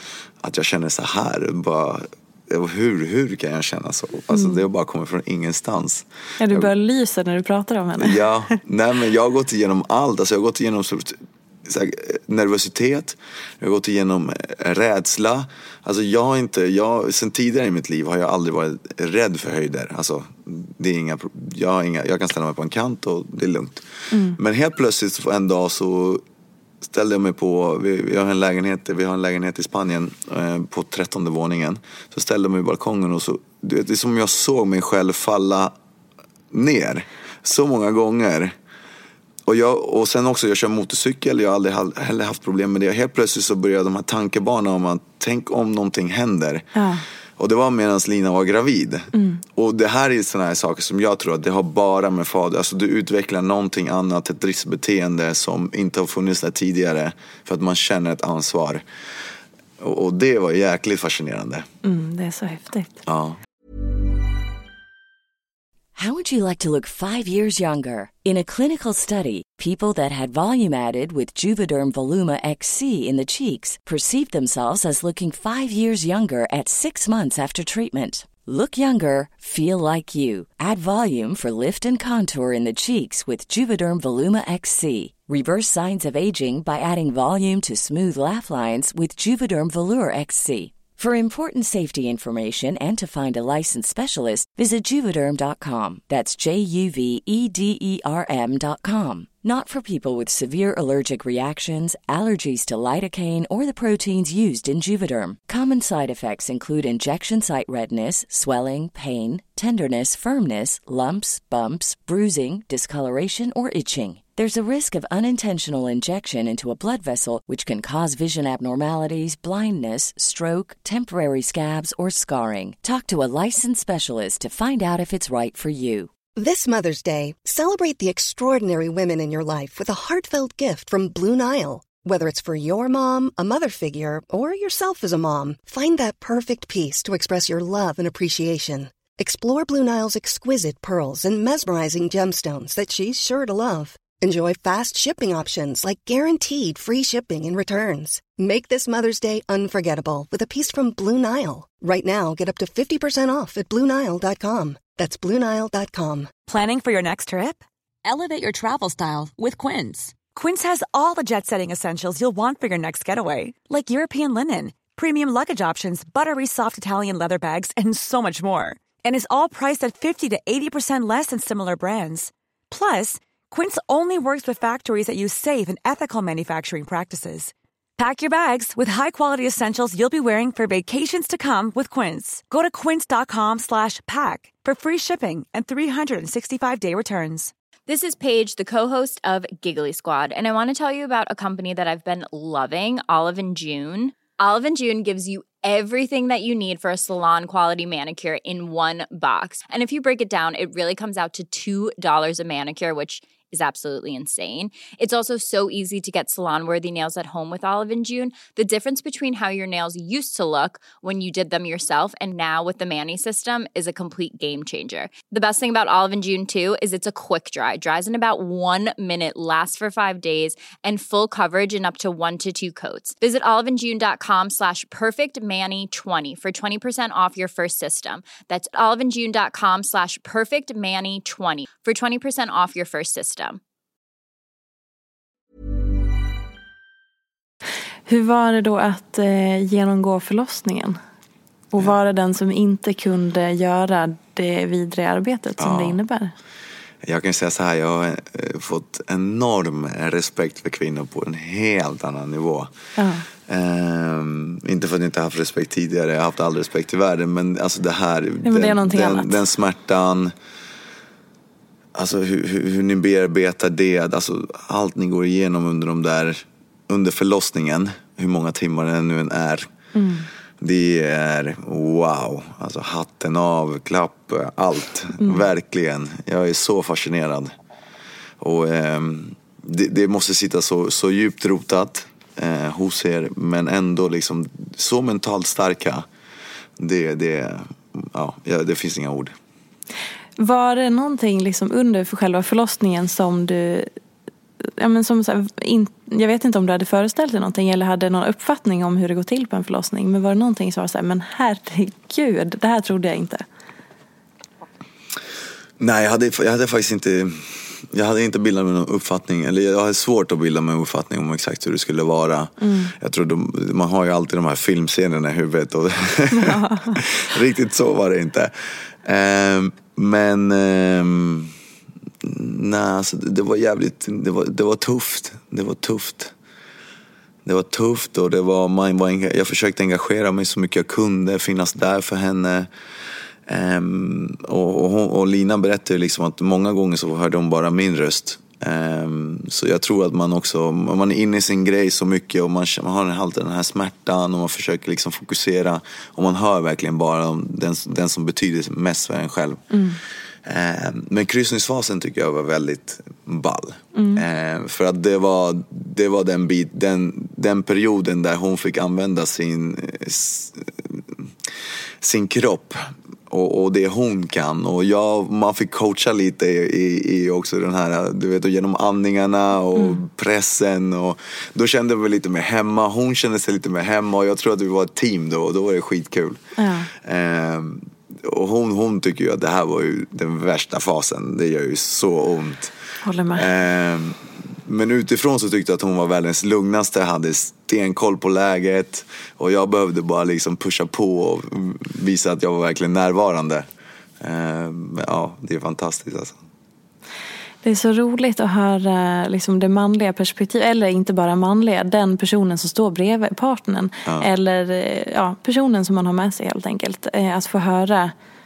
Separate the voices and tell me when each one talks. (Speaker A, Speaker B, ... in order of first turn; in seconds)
Speaker A: 0.4-6.7, 8.0-26.2, 26.8-35.7, 36.5-38.5, 39.5-46.7, 47.4-58.8, 59.8-61.7, 63.0-63.4, 245.6-246.0, 247.0-252.7, 253.5-260.3, 261.9-269.7, 270.6-277.5, 278.4-286.1, 286.8-289.3, 305.8-321.5, 322.2-326.3, 327.4-332.7, 333.5-349.6, 350.4-361.3, 362.0-376.4, 376.9-382.7, 383.3-393.6, 394.2-396.4
Speaker B: 4.3-4.6, 6.4-8.2, 24.1-24.4, 46.7-47.0, 49.1-49.4, 61.8-63.0, 238.1-241.0, 241.7-246.3, 253.0-253.2, 258.4-259.4, 269.9-270.3, 290.4-293.9, 294.8-303.4, 312.6-312.9, 316.3-317.0, 349.7-350.0, 353.9-354.2, 376.6-376.9, 383.0-383.5, 397.6-408.1
Speaker C: 65.9-126.1
Speaker D: 126.3-156.3
Speaker E: 156.5-187.5
Speaker F: 187.9-233.6